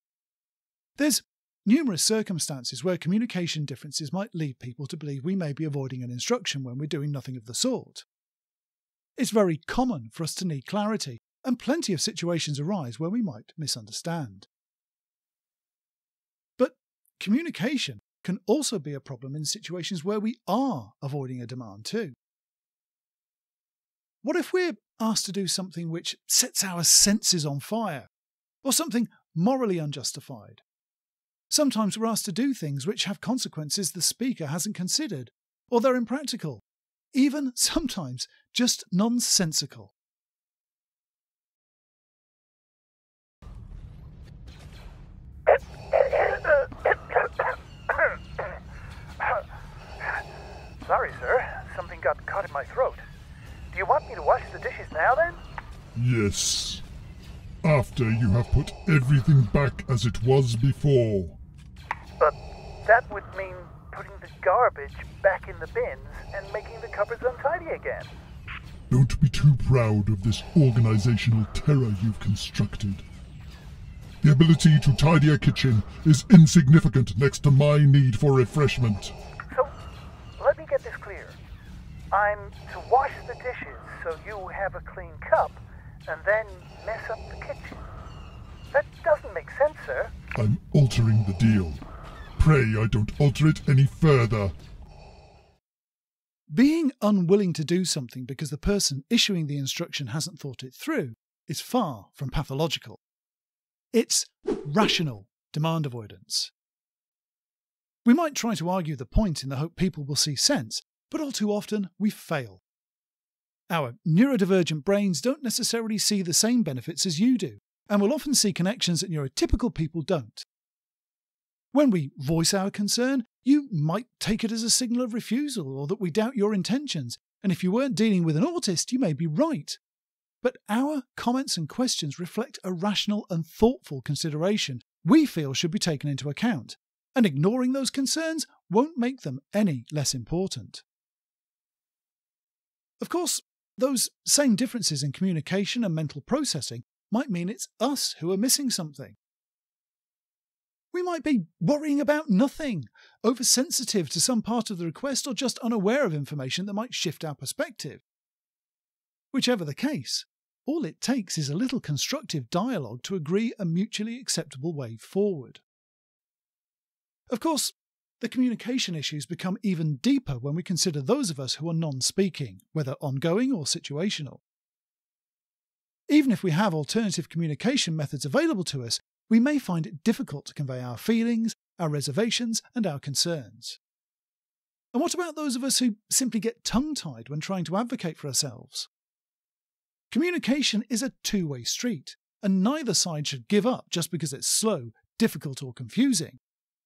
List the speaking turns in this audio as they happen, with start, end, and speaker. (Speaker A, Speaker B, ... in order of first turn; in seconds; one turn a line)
Speaker A: 1.0-8.1
Speaker A: 9.2-14.5
Speaker A: 16.6-22.1
Speaker A: 24.2-28.1
Speaker A: 28.6-30.6
Speaker A: 31.5-36.6
Speaker A: 37.1-39.9
Speaker B: 47.9-48.5
Speaker B: 50.8-53.0
Speaker B: 53.7-55.4
Speaker C: 56.0-56.8
Speaker C: 57.6-61.4
Speaker B: 62.2-68.1
Speaker C: 68.9-73.0
Speaker C: 74.2-79.1
Speaker B: 80.4-81.4
Speaker B: 82.1-87.8
Speaker B: 88.7-90.1
Speaker C: 90.4-91.8
Speaker C: 92.4-94.5
Speaker A: 96.5-103.0
Speaker A: 103.9-106.5
Speaker A: 108.0-112.6
Speaker A: 113.7-120.5
Speaker A: 121.7-129.8
Speaker A: 130.4-140.8
Speaker A: 143.0-149.2
Speaker A: 150.9-158.0
Speaker A: 159.3-165.6
Speaker A: 167.3-174.4
Speaker A: 176.1-183.8
Speaker A: 184.9-188.9
Speaker A: 190.1-196.4